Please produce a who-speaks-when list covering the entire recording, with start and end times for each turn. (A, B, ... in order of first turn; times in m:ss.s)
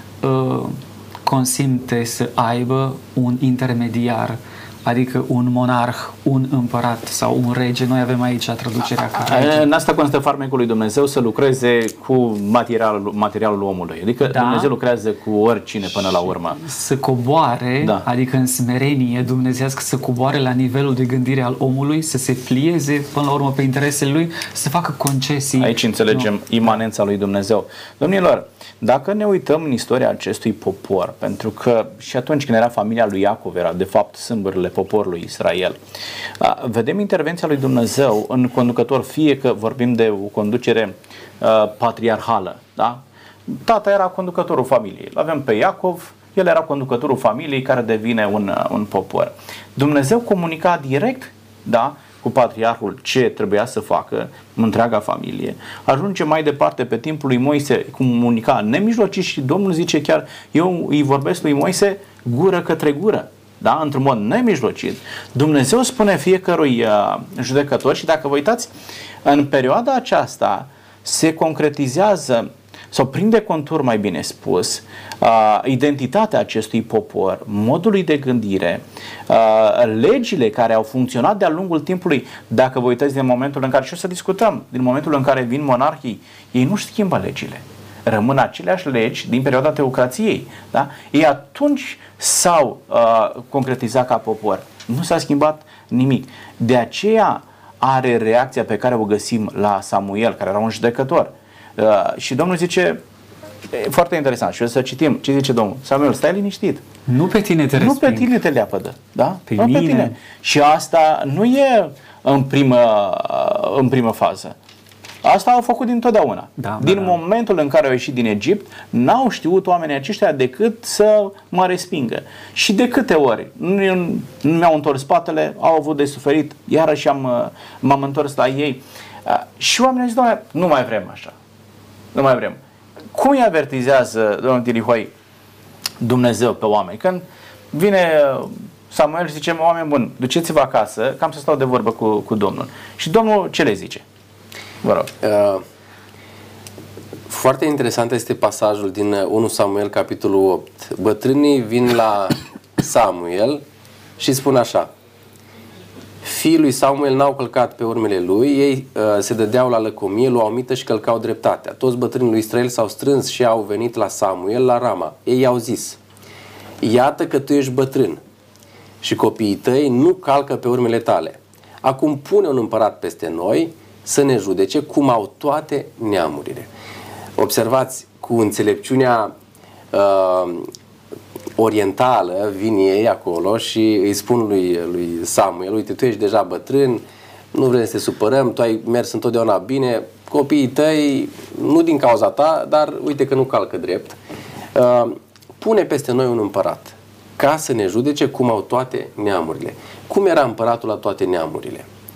0:00.2-0:09.6 A
0:09.1-0:16.6 B
0:14.2-0:14.7 A
0:16.2-0:26.3 A
0:25.6-0:35.8 B
0:36.4-1:08.7 B
1:09.2-1:43.0 B
1:43.7-1:46.8 B
1:47.1-1:48.3 A
1:47.8-1:54.5 B
1:49.5-1:50.1 A
1:55.2-2:11.3 B
1:56.6-1:57.2 A
2:12.1-2:12.6 B
2:13.1-2:15.1 B
2:16.0-2:24.0 B
2:24.8-2:25.1 B
2:25.2-2:25.6 C
2:27.3-2:33.6 C
2:34.2-2:34.9 C
2:36.2-2:46.0 C
2:46.8-2:48.2 C
2:49.0-2:56.7 C
2:57.4-2:59.3 C
2:59.9-3:00.7 C
3:01.6-3:07.0 C
3:07.5-3:14.2 C
3:14.7-3:21.9 C